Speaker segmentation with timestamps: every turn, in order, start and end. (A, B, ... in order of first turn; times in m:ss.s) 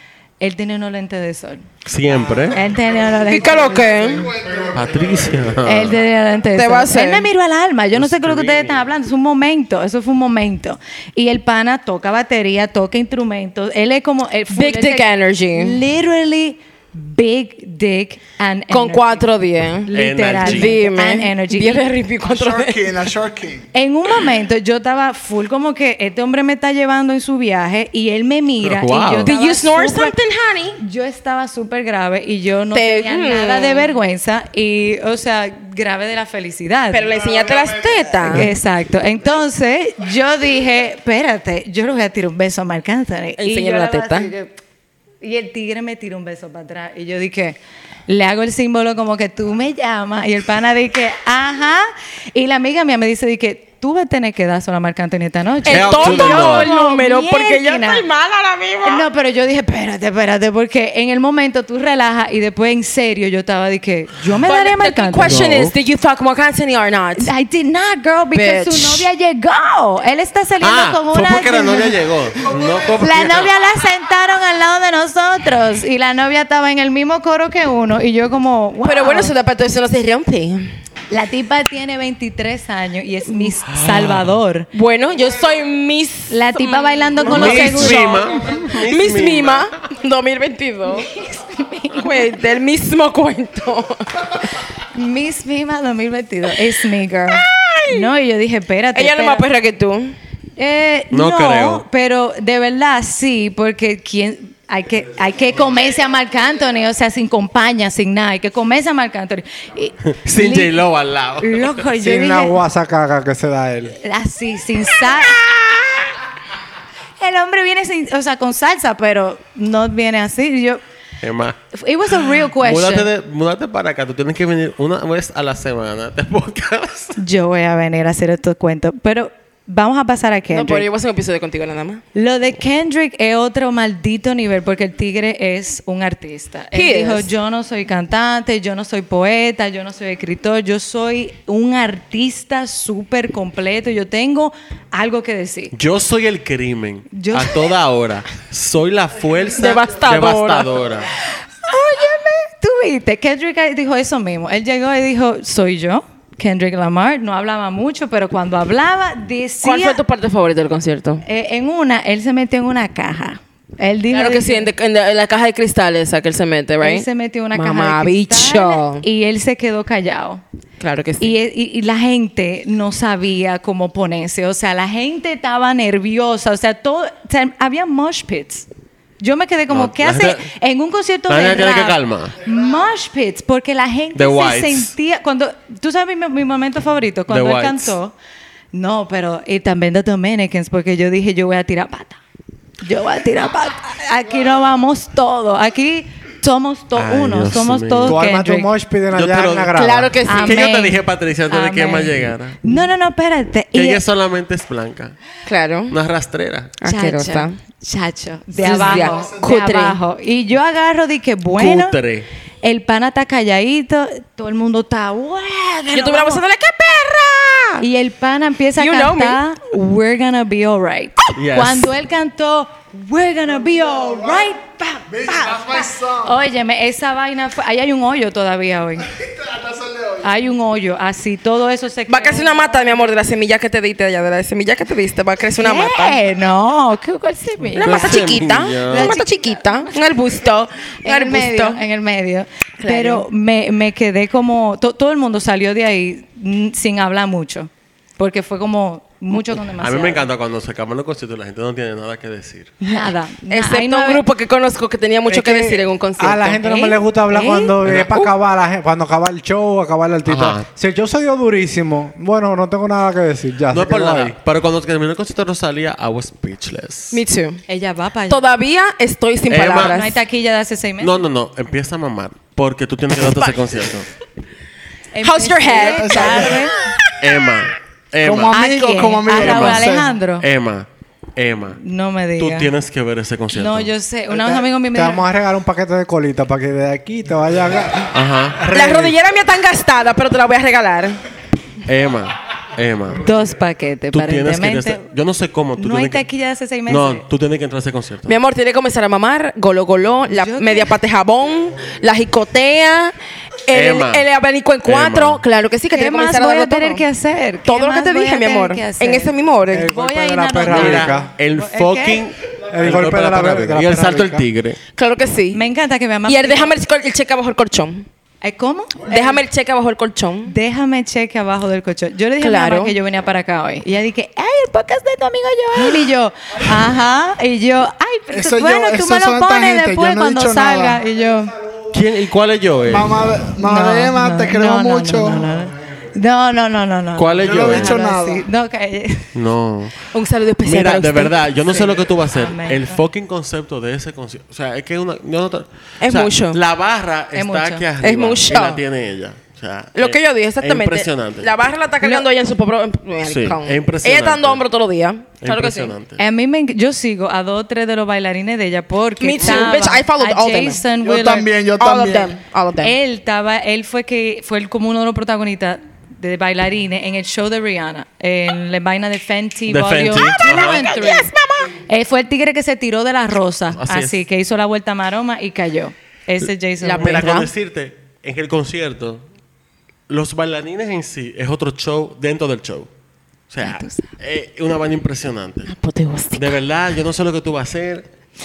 0:00.4-0:01.7 A
0:01.8-0:02.6 B
0:02.5-0:04.1 A
0:03.2-0:04.3 C
0:04.0-0:04.7 D
0:04.7-0:06.0 B
0:05.6-0:19.3 A
0:06.5-0:07.3 C
0:08.0-0:08.9 B
0:14.5-0:15.8 C
0:18.7-0:19.9 C
0:19.9-0:21.9 A
0:19.9-0:20.8 B
0:20.4-0:22.9 C
0:22.2-0:23.7 D
0:23.7-0:30.2 A
0:28.6-0:29.3 B
0:29.2-0:30.8 C
0:30.8-0:37.1 A
0:32.7-0:33.9 C
0:36.9-0:38.5 C
0:38.2-0:44.5 A
0:43.4-0:44.3 C
0:45.2-0:58.1 A
0:55.6-0:59.1 C
0:55.7-0:56.7 B
0:58.8-1:05.6 A
1:04.4-1:07.3 C
1:05.2-1:05.7 B
1:07.2-1:19.3 A
1:08.3-1:09.1 C
1:10.6-1:13.5 B
1:18.8-1:20.8 C
1:21.1-1:24.7 A
1:23.7-1:24.3 B
1:24.7-1:31.1 C
1:26.3-1:28.3 A
1:27.2-1:29.7 B
1:31.1-1:32.3 A
1:32.0-1:34.5 C
1:34.9-1:39.5 A
1:37.3-1:38.1 C
1:38.9-1:40.2 C
1:40.6-1:50.8 A
1:41.1-1:41.8 B
1:50.1-1:51.9 B
1:51.4-1:52.6 A
1:52.0-1:54.0 E
1:54.0-1:55.6 A
1:57.2-2:00.8 A
2:01.2-2:01.6 B
2:01.7-2:03.1 A
2:02.1-2:07.2 B
2:07.2-2:10.9 A
2:10.5-2:12.0 C
2:12.2-2:25.7 A
2:16.7-2:17.3 C
2:25.7-2:31.1 B
2:27.1-2:27.7 A
2:29.5-2:30.8 C
2:31.6-2:40.0 A
2:39.6-2:41.2 C
2:41.2-2:44.7 A
2:44.1-2:49.0 C
2:46.8-2:50.4 A
2:50.8-2:51.4 C
2:51.2-2:58.7 A
2:59.2-3:08.2 A
2:59.7-3:00.4 B
3:01.3-3:02.4 B
3:04.1-3:04.9 B
3:07.3-3:08.0 B
3:08.7-3:12.2 A
3:12.8-3:18.7 A
3:16.9-3:18.2 B
3:18.0-3:20.2 E
3:19.1-3:22.6 B
3:19.7-3:20.6 C
3:20.2-3:24.0 A
3:23.7-3:25.2 B
3:25.5-3:26.0 C
3:25.9-3:26.8 B
3:26.8-3:27.6 C
3:26.8-3:32.0 A
3:28.6-3:30.0 C
3:28.6-3:29.6 D
3:31.6-3:32.3 B
3:32.6-3:36.4 A
3:35.9-3:37.9 C
3:37.8-3:49.1 A
3:38.8-3:39.4 C
3:41.4-3:41.9 B
3:43.9-3:44.4 D
3:45.1-3:46.4 D
3:49.2-3:50.3 D
3:50.2-3:53.1 A
3:52.1-3:56.2 C
3:55.6-4:00.2 A
3:57.7-4:01.8 C
3:57.8-3:59.2 B
4:01.0-4:10.2 A
4:02.8-4:03.3 C
4:09.6-4:12.8 B
4:12.8-4:14.2 A
4:12.8-4:16.6 C
4:15.3-4:24.4 E
4:16.5-4:17.8 A
4:17.8-4:18.1 B
4:20.2-4:20.7 B
4:23.7-4:27.2 B
4:27.1-4:27.6 C
4:27.7-4:28.5 A
4:28.3-4:30.2 C
4:29.5-4:30.0 B
4:29.8-4:31.2 A
4:31.0-4:34.1 B
4:35.1-4:36.8 A
4:35.2-4:37.0 C
4:35.8-4:36.6 D
4:37.2-4:38.6 B
4:38.2-4:40.1 D
4:38.5-4:40.5 A
4:39.3-4:41.8 B
4:41.8-4:42.7 A
4:42.4-4:43.9 B
4:43.5-4:45.2 A
4:44.8-4:49.2 E
4:48.1-4:48.6 B
4:48.7-4:51.2 C
4:51.9-4:53.2 B
4:53.2-4:55.0 A
4:54.1-4:56.2 B
4:55.8-4:57.2 A
4:56.9-4:58.4 B
4:58.3-5:03.1 C
5:00.3-5:01.0 A
5:03.7-5:07.0 C
5:03.7-5:04.2 B
5:04.8-5:05.4 B
5:05.9-5:12.2 A
5:07.6-5:09.9 C
5:09.7-5:11.3 E
5:10.7-5:14.8 B
5:12.7-5:14.4 E
5:15.0-5:15.6 C
5:15.5-5:16.8 A
5:16.3-5:18.1 C
5:18.4-5:19.4 A
5:19.0-5:20.6 C
5:20.5-5:31.6 A
5:22.4-5:23.0 C
5:28.3-5:31.0 D
5:31.9-5:33.4 B
5:32.9-5:35.6 D
5:33.6-5:39.3 A
5:37.2-5:38.0 B
5:37.4-5:38.5 D
5:39.4-5:40.1 B
5:40.1-5:41.4 C
5:40.6-5:51.5 B
5:42.0-5:43.0 A
5:46.0-5:46.6 C
5:47.4-5:47.9 A
5:48.0-5:48.8 C
5:50.0-5:55.9 C
5:53.2-5:54.6 B
5:55.4-5:56.2 B
5:56.2-6:01.5 A
5:59.2-6:00.8 C
6:01.0-6:02.4 D
6:01.8-6:03.0 C
6:02.8-6:11.3 A
6:09.7-6:10.9 B
6:10.0-6:11.8 C
6:11.9-6:17.3 A
6:13.7-6:14.2 B
6:16.8-6:17.5 C
6:17.0-6:19.2 B
6:20.1-6:22.9 B
6:23.5-6:25.7 B
6:23.6-6:24.1 A
6:25.7-6:26.6 C
6:26.3-6:28.1 B